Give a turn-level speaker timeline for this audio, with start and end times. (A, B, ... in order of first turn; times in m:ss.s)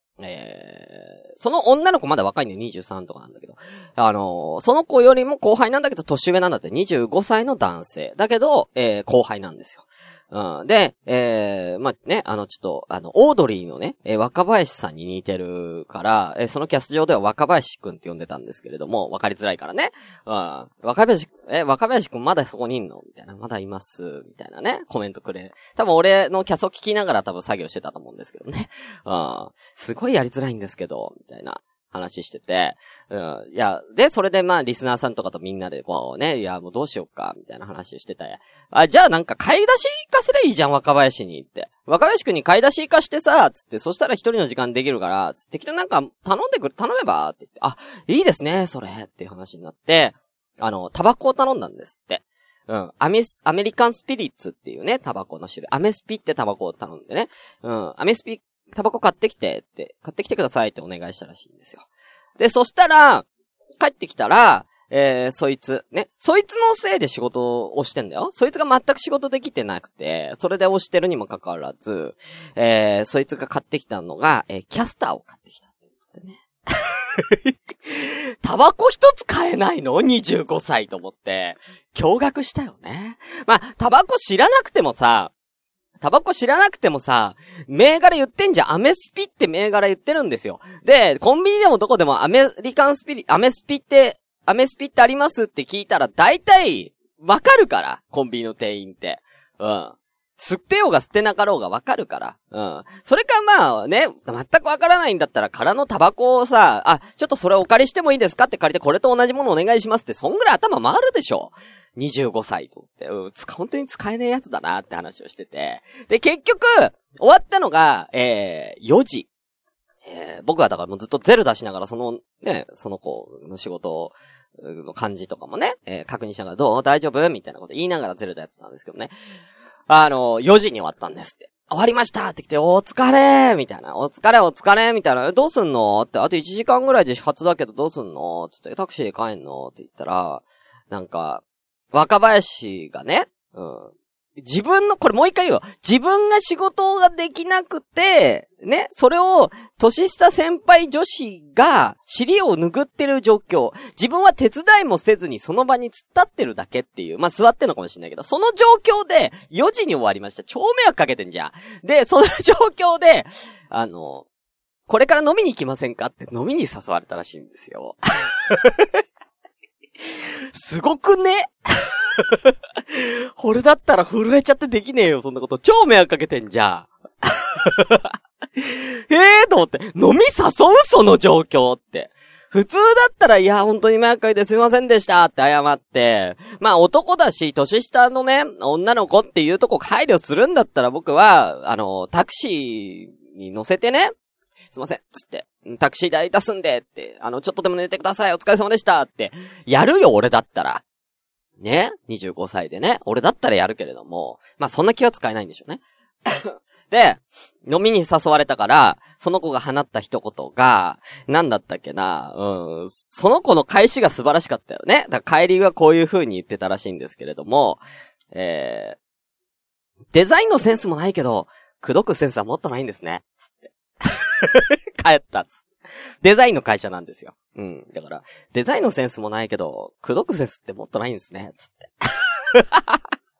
0:00.2-1:01.8 A
1:02.4-1:03.2 A
1:03.8-1:25.3 A
1:26.0-1:59.3 A
2:00.0-2:09.1 A
2:09.9-2:44.2 A
2:44.9-2:49.0 A
2:50.1-3:14.1 A
3:14.7-3:20.8 A
3:21.6-3:39.0 A
3:40.1-3:45.6 A
3:46.2-3:53.0 A